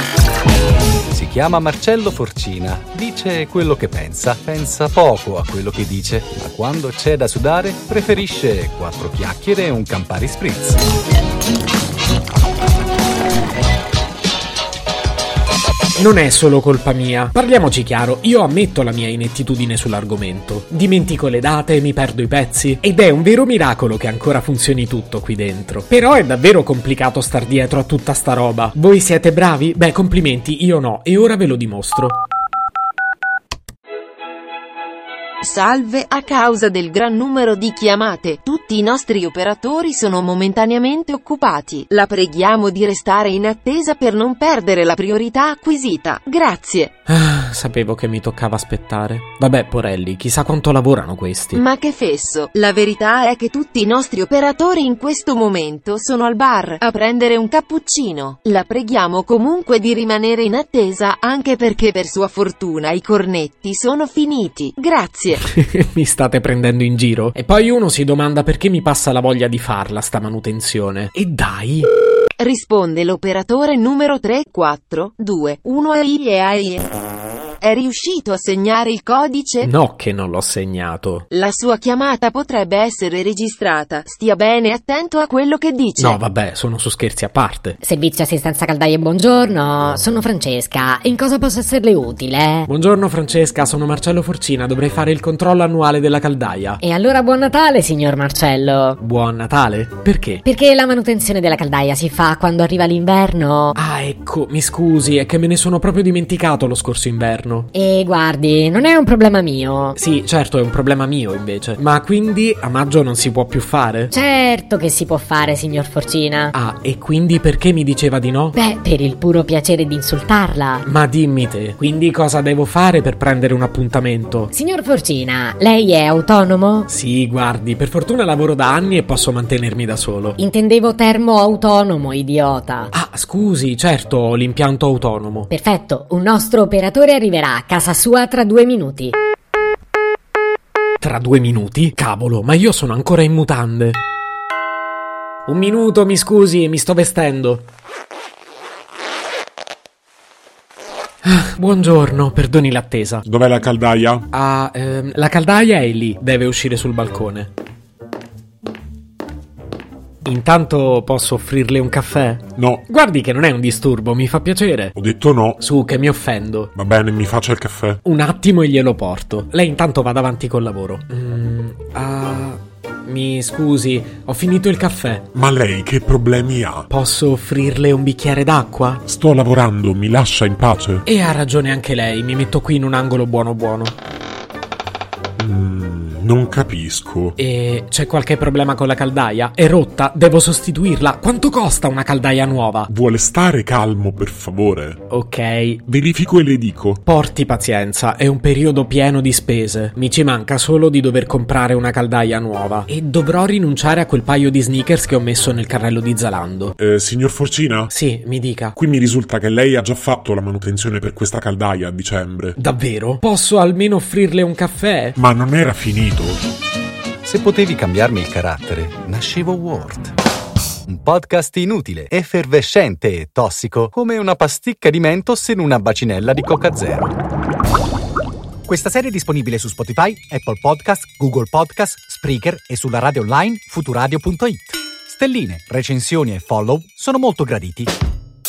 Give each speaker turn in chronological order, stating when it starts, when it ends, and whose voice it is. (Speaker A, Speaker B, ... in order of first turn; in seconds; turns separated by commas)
Speaker A: 1.1-10.8, Speaker B: 16.0-32.2, Speaker C: 35.4-46.9, Speaker B: 47.1-51.6, Speaker C: 51.5-65.4, Speaker B: 65.5-71.9, Speaker C: 72.4-76.9, Speaker C: 77.6-79.7, Speaker B: 79.6-81.2, Speaker C: 81.3-86.2, Speaker B: 86.0-87.8, Speaker D: 87.8-92.7, Speaker B: 92.7-96.8, Speaker D: 96.8-99.0, Speaker B: 99.0-100.4, Speaker D: 100.4-103.8, Speaker B: 103.7-107.7, Speaker D: 107.7-110.0, Speaker B: 110.0-114.1, Speaker D: 114.1-116.5, Speaker B: 116.5-118.5, Speaker D: 118.5-120.8, Speaker B: 120.8-124.5, Speaker D: 124.5-126.9, Speaker B: 126.9-130.4, Speaker D: 130.4-132.9, Speaker B: 132.9-135.5, Speaker D: 135.5-139.2, Speaker B: 141.0-144.0, Speaker B: 145.5-147.7, Speaker B: 151.2-153.2, Speaker E: 153.2-154.3, Speaker B: 154.3-157.5, Speaker B: 160.2-164.9, Speaker E: 162.6-162.8, Speaker E: 164.9-165.6, Speaker B: 165.6-166.7, Speaker E: 166.7-168.0, Speaker B: 168.0-175.3, Speaker E: 175.3-176.9, Speaker B: 176.9-179.0, Speaker E: 179.0-181.0, Speaker B: 181.0-183.9, Speaker E: 185.4-187.3, Speaker B: 187.4-192.9, Speaker E: 192.9-195.0, Speaker B: 195.1-195.8, Speaker E: 195.9-197.0, Speaker B: 197.1-206.8, Speaker E: 206.8-207.9, Speaker B: 207.9-208.7, Speaker E: 208.8-212.6, Speaker B: 212.6-215.2, Speaker E: 215.2-216.4, Speaker A: 217.2-220.1, Speaker A: 220.8-227.2, Speaker A: 228.7-237.9